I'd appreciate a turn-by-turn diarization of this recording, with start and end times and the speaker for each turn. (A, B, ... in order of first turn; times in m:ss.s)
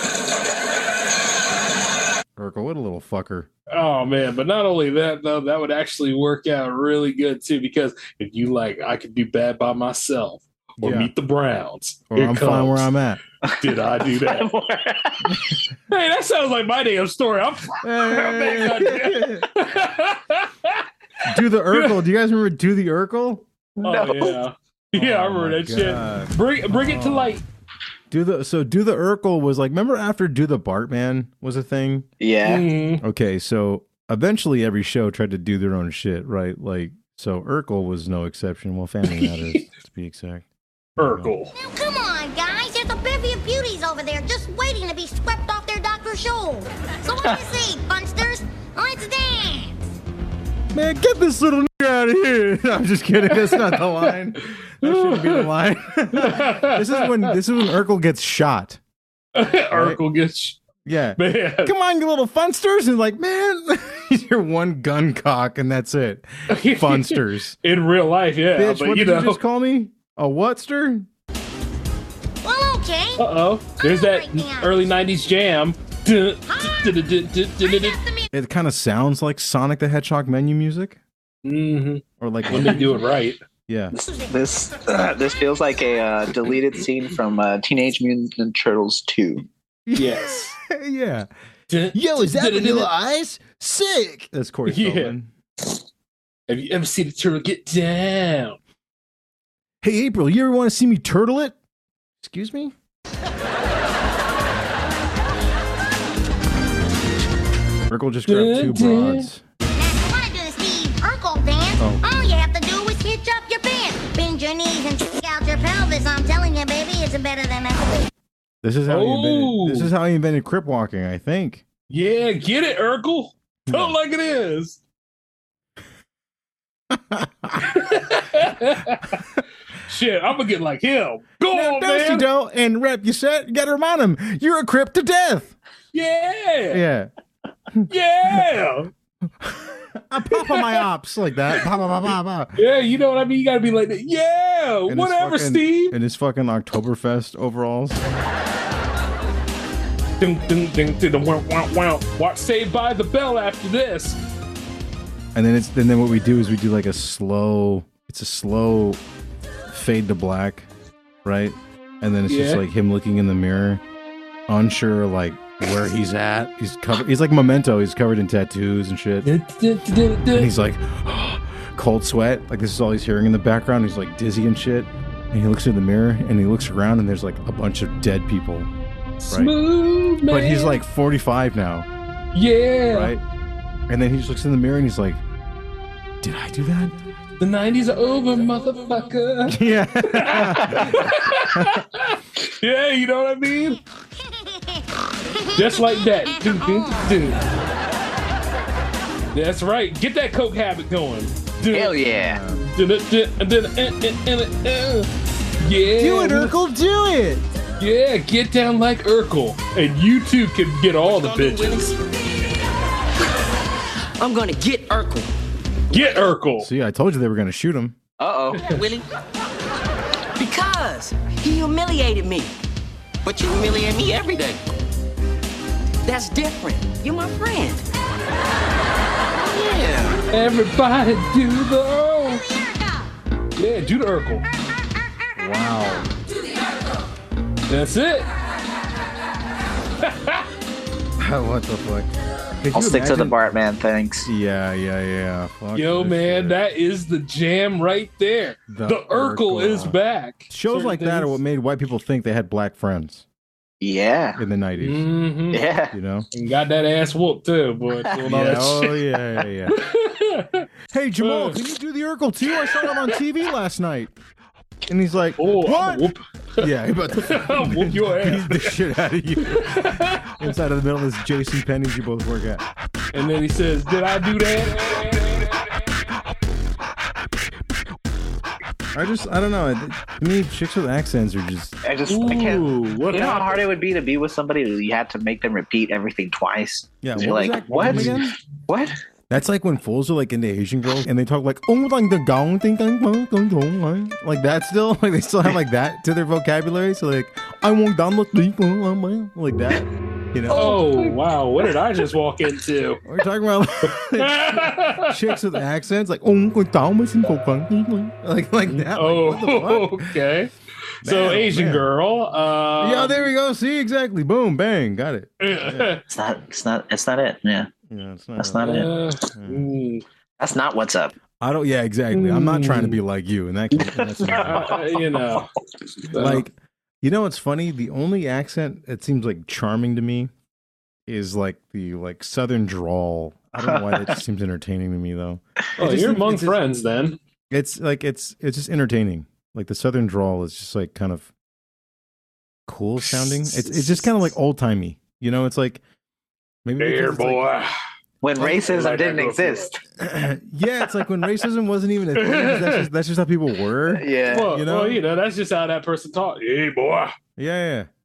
0:02.4-0:03.5 A
0:03.7-0:12.9 B
0:10.8-0:11.1 A
0:12.1-0:13.2 A
0:13.4-0:15.4 C
0:13.6-0:14.5 B
0:15.9-0:20.8 B
0:17.8-0:19.5 A
0:21.2-0:23.4 A
0:21.7-0:22.0 B
0:23.8-0:24.4 C
0:23.8-0:27.4 B
0:24.9-0:27.4 A
0:28.1-0:32.0 A
0:32.2-0:32.7 C
0:32.4-0:33.0 B
0:33.0-0:40.4 A
0:39.0-0:39.6 B
0:41.0-0:41.5 B
0:41.0-0:41.3 A
0:41.5-0:49.8 D
0:50.7-0:58.8 A
0:53.3-0:55.5 B
0:56.1-0:57.3 B
0:59.3-1:00.6 B
0:59.7-1:00.0 A
1:00.8-1:07.6 A
1:01.2-1:01.7 B
1:06.5-1:09.4 B
1:08.6-1:11.1 A
1:12.4-1:14.8 D
1:13.2-1:18.0 B
1:16.5-1:17.0 D
1:17.6-1:18.3 D
1:18.3-1:21.0 A
1:21.4-1:23.4 B
1:22.2-1:23.0 A
1:23.7-1:23.9 A
1:23.9-1:29.4 C
1:24.0-1:24.4 D
1:29.8-1:31.3 A
1:30.0-1:30.5 B
1:31.7-1:32.9 B
1:31.9-1:35.3 A
1:34.7-1:35.1 B
1:36.5-1:38.6 B
1:39.8-1:41.6 A
1:42.2-1:42.7 A
1:47.9-1:49.4 A
1:48.3-1:49.2 B
1:49.7-1:58.1 D
1:51.8-1:52.1 A
1:58.6-2:01.6 A
1:58.9-1:59.9 B
2:01.9-2:04.8 B
2:03.7-2:04.0 A
2:06.9-2:07.8 A
2:07.7-2:09.2 B
2:09.8-2:12.3 B
2:11.5-2:15.6 A
2:15.9-2:16.8 B
2:16.7-2:17.1 A
2:17.9-2:18.9 B
2:19.4-2:22.6 A
2:20.3-2:20.8 B
2:22.6-2:26.0 B
2:24.9-2:28.0 A
2:30.2-2:34.2 B
2:35.3-2:39.0 A
2:39.7-2:40.7 A
2:41.2-2:43.8 A
2:42.3-2:42.6 B
2:44.5-2:49.3 A
2:49.2-2:50.5 B
2:50.3-2:58.7 A
2:59.2-3:00.8 B
3:00.3-3:01.9 A
3:02.3-3:03.2 B
3:02.9-3:03.2 A
3:03.9-3:05.2 A
3:06.2-3:07.0 A
3:07.4-3:13.8 B
3:09.5-3:11.8 A
3:14.2-3:17.3 D
3:15.5-3:17.4 B
3:19.3-3:22.0 B
3:21.7-3:22.4 C
3:22.2-3:22.7 A
3:22.7-3:26.5 B
3:26.0-3:27.4 A
3:27.8-3:31.9 B
3:31.0-3:32.5 E
3:34.2-3:35.3 E
3:35.9-3:36.7 B
3:36.6-3:38.0 A
3:38.2-3:38.7 C
3:38.6-3:39.0 E
3:40.4-3:42.5 E
3:43.2-3:44.6 E
3:46.0-3:47.8 E
3:49.4-3:50.2 C
3:50.3-3:52.4 B
3:52.3-3:53.0 D
3:53.6-3:54.4 B
3:55.4-3:56.1 A
3:57.7-3:58.3 B
4:00.0-4:00.5 B
4:01.2-4:02.1 A
4:02.6-4:03.4 A
4:02.7-4:04.3 C
4:04.2-4:06.6 A
4:05.7-4:11.4 B
4:08.7-4:10.0 A
4:10.5-4:13.2 A
4:13.8-4:14.4 C
4:14.4-4:15.0 A
4:14.8-4:15.6 B
4:15.5-4:16.0 C
4:15.9-4:16.3 A
4:16.3-4:19.0 B
4:18.2-4:19.8 A
4:19.7-4:20.7 B
4:20.9-4:24.2 A
4:21.2-4:21.6 B
4:22.7-4:23.1 B
4:24.9-4:32.6 A
4:25.4-4:28.8 B
4:29.4-4:30.5 B
4:33.1-4:35.7 B
4:38.9-4:41.8 A
4:41.8-4:48.9 C
4:42.1-4:43.6 B
4:47.0-4:48.3 A
4:47.7-4:48.2 B
4:49.3-5:01.1 A
5:00.5-5:03.0 B
5:03.0-5:10.1 A
5:03.8-5:05.1 B
5:08.6-5:10.5 B
5:11.0-5:11.8 A
5:11.0-5:13.3 B
5:12.8-5:16.0 A
5:15.4-5:16.0 B
5:16.1-5:17.7 C
5:17.9-5:19.7 A
5:18.4-5:18.9 C
5:18.6-5:20.0 B
5:20.4-5:21.1 C
5:21.4-5:24.7 A
5:22.1-5:23.0 B
5:23.9-5:25.5 B
5:24.5-5:25.4 C
5:26.1-5:26.4 B
5:26.1-5:30.3 A
5:31.1-5:36.6 A
5:33.6-5:34.2 C
5:35.8-5:37.2 B
5:37.5-5:41.3 A
5:42.7-5:45.8 A
5:43.5-5:44.0 C
5:46.6-5:47.4 A
5:46.8-5:47.7 B
5:48.2-5:49.8 C
5:48.4-5:49.7 B
5:50.0-5:55.0 A
5:52.2-5:52.9 B
5:53.9-5:54.6 C
5:54.3-5:57.1 B
5:57.4-5:57.9 A